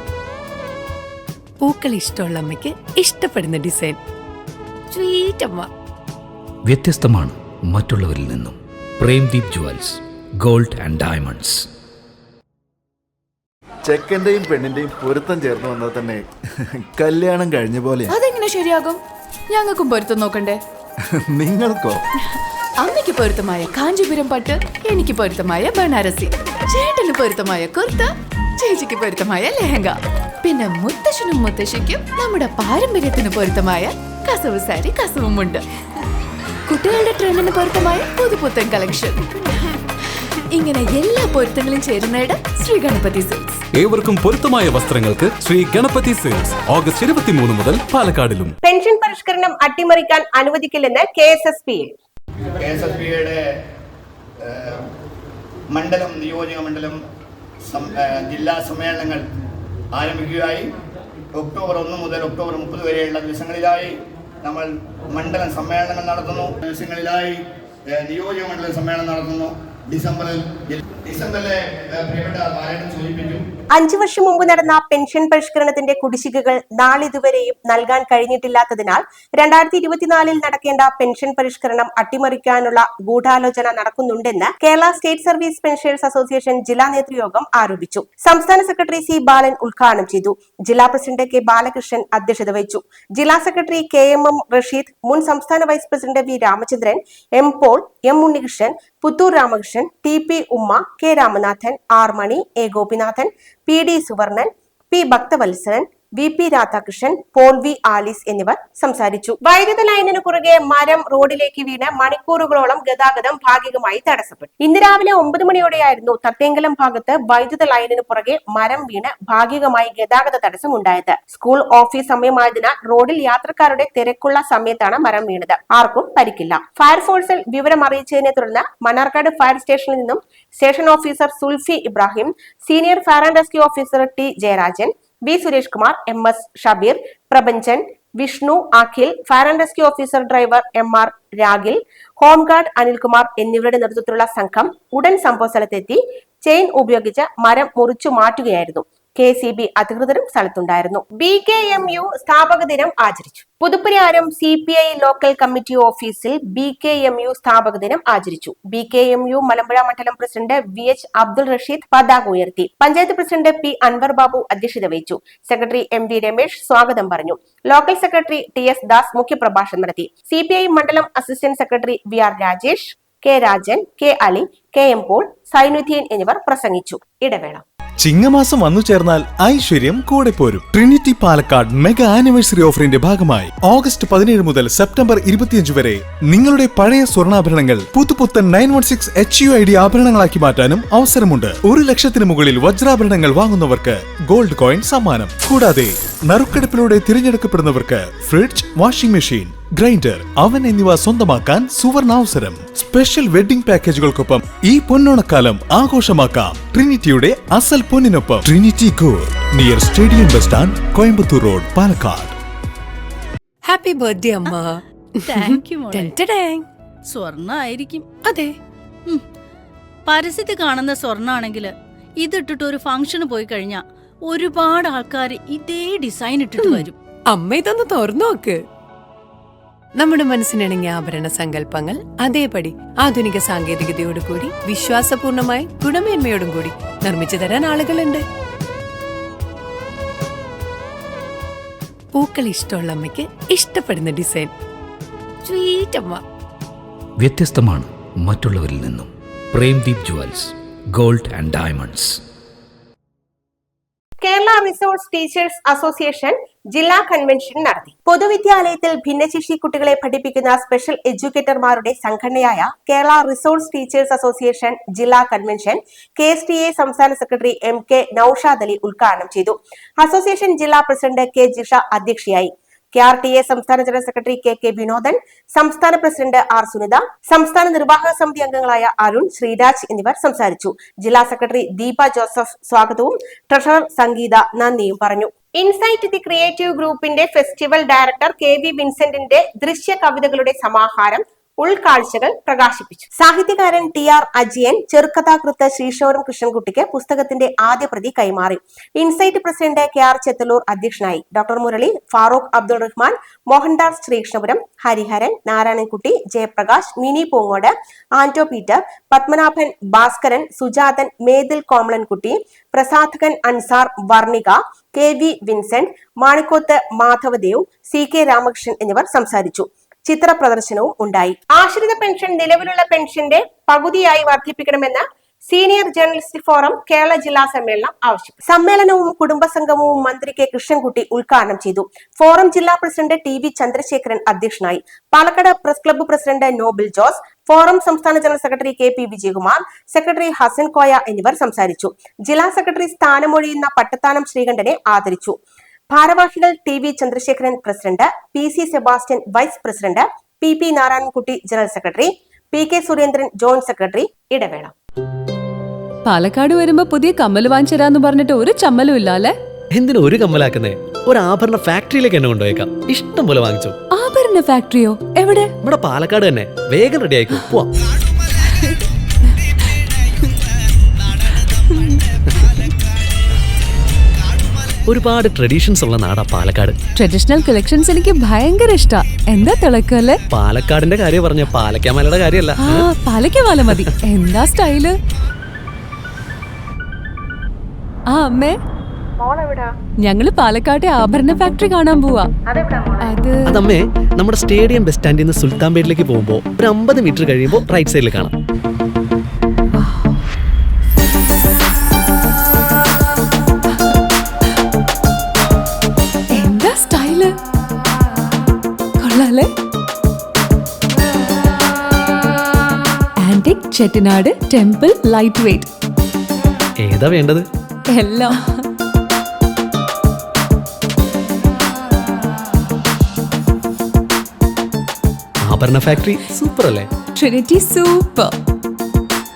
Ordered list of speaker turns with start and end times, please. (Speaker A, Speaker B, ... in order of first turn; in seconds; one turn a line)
Speaker A: 1.6-4.0
Speaker A: 4.9-5.7
Speaker B: 6.7-11.7
Speaker C: 13.9-16.2
Speaker C: 16.8-18.1
Speaker D: 18.1-19.0
Speaker D: 19.5-20.6
Speaker C: 21.2-22.0
Speaker D: 22.8-35.6
Speaker D: 36.7-39.3
Speaker D: 40.5-43.6
Speaker E: 43.7-48.5
Speaker F: 48.6-51.9
Speaker G: 52.6-53.4
Speaker G: 54.4-54.8
Speaker G: 55.7-57.0
Speaker G: 57.7-59.2
Speaker G: 59.9-60.7
Speaker G: 61.4-63.9
Speaker G: 64.4-67.4
Speaker G: 67.9-73.5
Speaker F: 73.7-177.7
Speaker H: 178.0-212.4
Speaker A: 213.7-216.7
Speaker I: 215.2-216.1
Speaker I: 217.1-218.1
Speaker A: 218.2-218.5
Speaker I: 220.1-227.0
Speaker A: 226.6-228.6
Speaker A: 230.0-238.2
Speaker A: 242.1-244.5
Speaker A: 245.4-246.2
Speaker B: 247.2-252.2
Speaker F: 254.2-345.4
Speaker F: 345.9-354.7
Speaker J: 356.1-359.4
Speaker K: 359.8-363.8
Speaker J: 363.9-365.5
Speaker K: 365.6-367.7
Speaker K: 374.9-376.8
Speaker J: 376.9-380.2
Speaker K: 380.3-382.9
Speaker J: 382.6-385.0
Speaker J: 388.1-388.6
Speaker F: 389.2-389.7
Speaker J: 390.1-392.3
Speaker F: 392.5-393.1
Speaker J: 393.0-393.5
Speaker K: 393.5-398.3
Speaker J: 399.8-400.1
Speaker J: 406.4-407.3
Speaker J: 409.0-409.5
Speaker J: 413.2-415.7
Speaker K: 416.8-417.4
Speaker J: 417.9-418.6
Speaker K: 425.4-426.9
Speaker J: 427.2-428.3